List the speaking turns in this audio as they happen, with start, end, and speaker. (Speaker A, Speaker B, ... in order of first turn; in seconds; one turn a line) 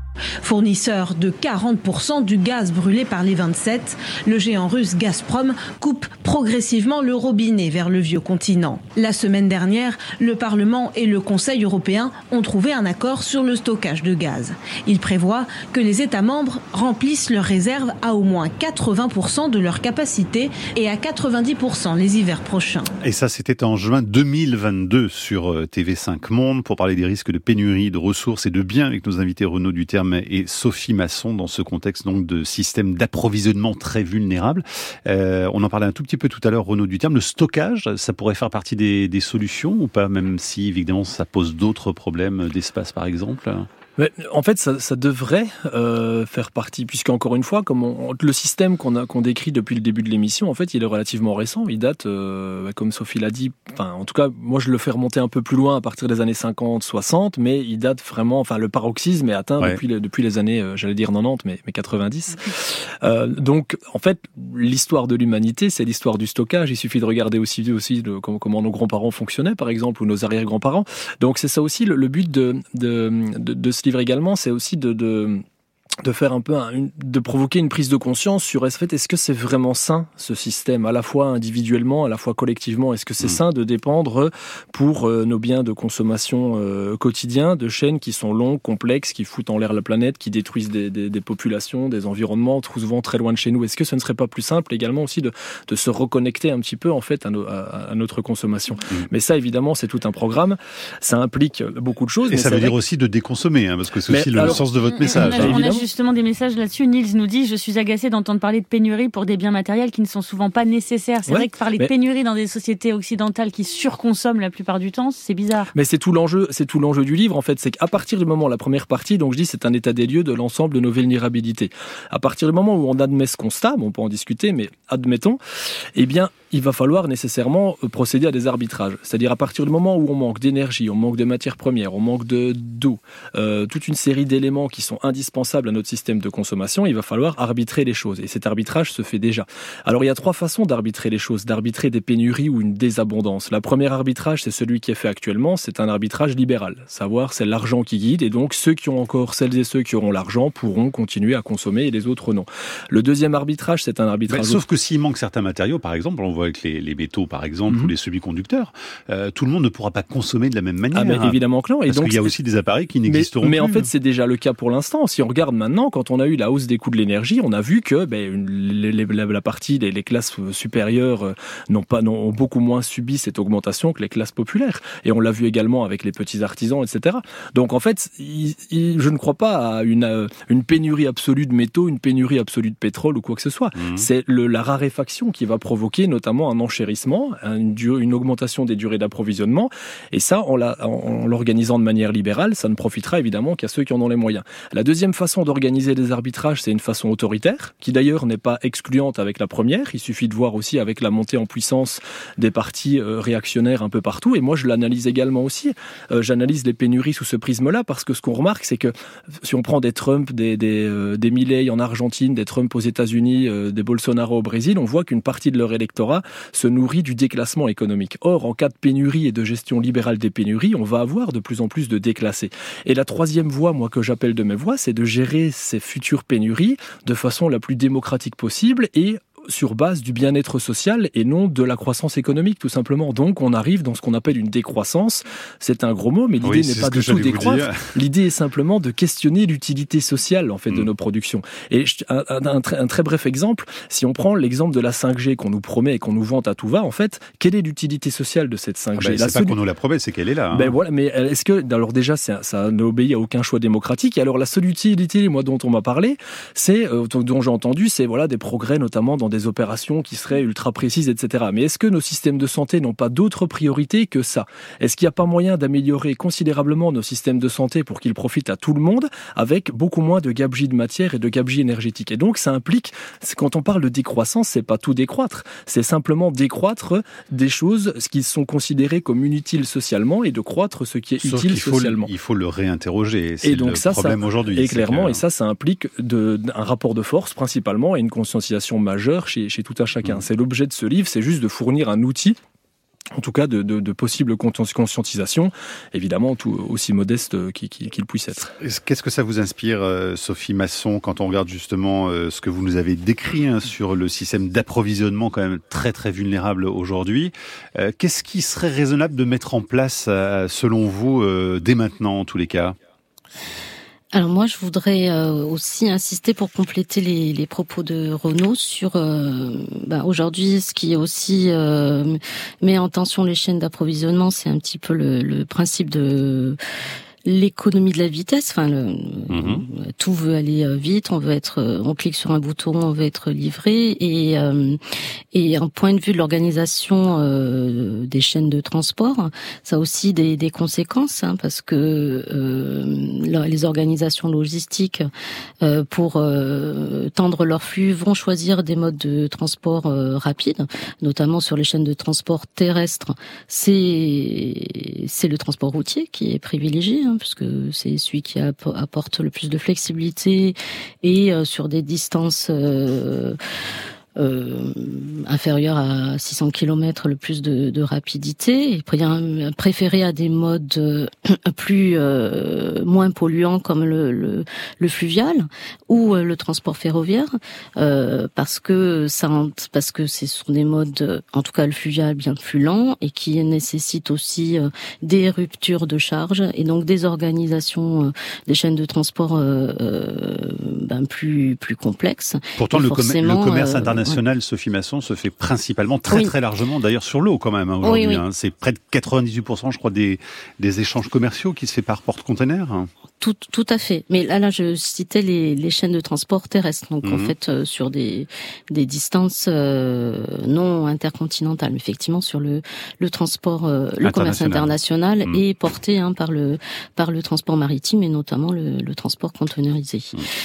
Speaker A: 0.4-22.9
Speaker B: 23.0-43.7
Speaker C: 44.0-75.4
Speaker C: 76.0-102.8
Speaker B: 102.3-105.6
Speaker C: 104.1-105.8
Speaker D: 104.8-115.7
Speaker C: 111.3-111.9
Speaker C: 115.7-125.4
Speaker C: 126.0-154.6
Speaker B: 154.3-163.9
Speaker C: 157.7-157.9
Speaker C: 160.9-162.4
Speaker C: 163.1-249.6
Speaker B: 183.7-184.1
Speaker B: 236.4-237.9
Speaker B: 249.0-250.7
Speaker C: 250.5-282.1
Speaker B: 281.2-285.2
Speaker C: 283.4-292.4
Speaker C: 293.1-298.5
Speaker B: 298.6-312.8
Speaker E: 314.1-326.6
Speaker E: 327.2-334.8
Speaker B: 329.3-329.6
Speaker E: 335.3-345.1
Speaker E: 345.6-363.4
Speaker E: 364.2-394.2
Speaker B: 392.6-402.9
Speaker E: 397.8-398.2
Speaker E: 403.2-420.1
Speaker B: 407.0-407.3
Speaker B: 414.0-415.4